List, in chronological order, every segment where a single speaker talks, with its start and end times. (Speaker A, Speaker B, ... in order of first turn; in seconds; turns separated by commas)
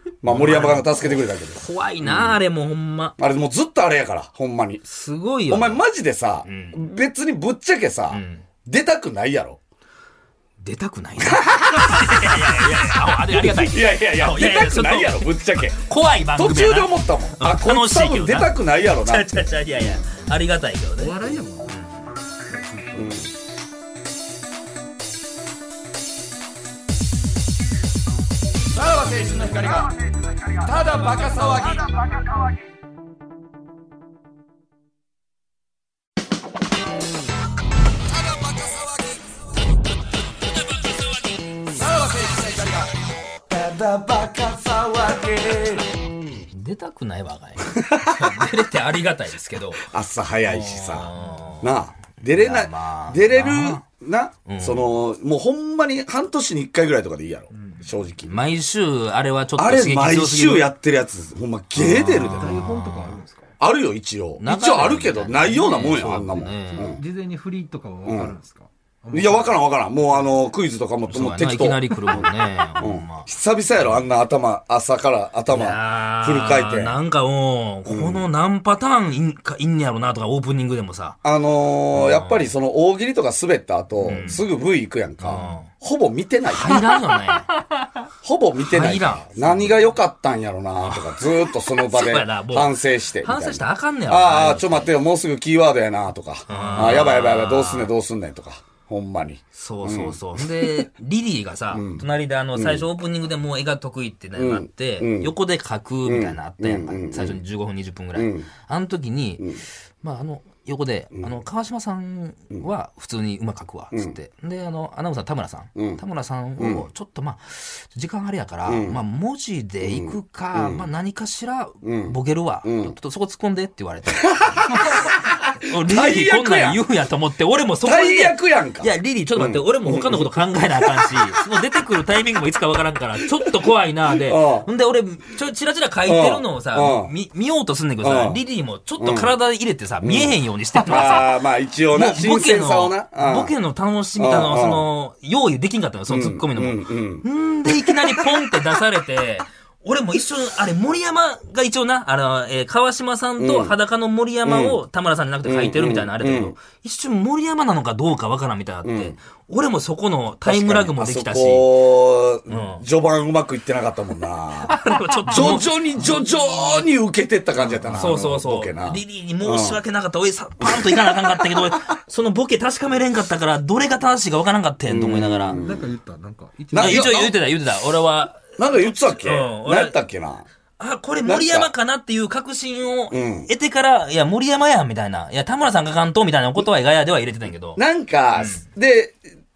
Speaker A: 0.2-2.4, Speaker B: 0.2-3.1, Speaker A: 3.2-4.8, Speaker B: 4.8-5.8, Speaker A: 5.5-9.6, Speaker B: 6.4-6.8, Speaker B: 8.1-8.4, Speaker B: 10.6-21.1, Speaker A: 11.2-12.4, Speaker A: 13.2-15.8, Speaker A: 16.3-19.9, Speaker C: 21.0-21.8, Speaker C: 22.5-23.2, Speaker A: 22.9-23.3, Speaker A: 28.7-29.9, Speaker A: 30.5-32.2, Speaker A: 38.2-39.2, Speaker B: 40.5-41.3, Speaker A: 41.7-46.4, Speaker B: 46.5-49.8, Speaker A: 47.7-48.5, Speaker A: 49.8-51.1, Speaker B: 50.5-51.7, Speaker A: 51.6-58.4, Speaker B: 52.3-53.8, Speaker B: 54.5-54.9, Speaker C: 57.5-57.9, Speaker B: 58.2-60.7, Speaker A: 59.6-62.6, Speaker B: 61.7-63.2, Speaker C: 62.4-63.5, Speaker A: 63.6-67.0, Speaker B: 64.4-67.0, Speaker C: 66.8-69.6, Speaker A: 68.0-68.3, Speaker A: 69.1-77.0, Speaker B: 71.1-73.3, Speaker B: 75.5-81.2, Speaker A: 77.9-78.2, Speaker A: 81.2-86.9, Speaker B: 81.9-82.5, Speaker B: 84.0-84.4, Speaker B: 85.2-85.7, Speaker B: 86.5-87.5, Speaker A: 88.2-100.9, Speaker B: 88.7-89.7, Speaker B: 90.8-94.9, Speaker B: 96.5-97.9, Speaker B: 99.5-141.4, Speaker A: 101.7-102.0, Speaker A: 102.5-102.8, Speaker A: 104.4-105.3, Speaker A: 106.0-107.4, Speaker A: 108.2-108.5, Speaker A: 115.8-116.0, Speaker A: 116.6-116.8, Speaker A: 118.7-119.0, Speaker A: 119.8-120.8, Speaker A: 121.8-122.9, Speaker A: 124.2-126.8, Speaker A: 127.8-131.4, Speaker A: 134.1-134.7, Speaker A: 136.1-137.1, Speaker A: 138.0-138.4, Speaker A: 139.0-139.3, Speaker A: 140.0-143.5, Speaker B: 141.9-161.7, Speaker A: 144.2-144.9, Speaker A: 146.1-148.6, Speaker A: 153.4-153.7, Speaker A: 154.4-154.8, Speaker A: 155.4-156.6, Speaker A: 158.8-159.2, Speaker A: 160.4-169.8, Speaker B: 162.5-162.8, Speaker B: 164.7-166.0, Speaker B: 167.9-175.6, Speaker A: 170.6-171.8, Speaker A: 174.9-175.8, Speaker C: 175.5-177.1, Speaker A: 176.7-177.3, Speaker B: 176.8-180.0, Speaker A: 178.6-180.4, Speaker B: 180.8-187.8, Speaker A: 181.2-181.7, Speaker A: 183.1-183.5, Speaker A: 187.8-189.2, Speaker B: 188.4-188.6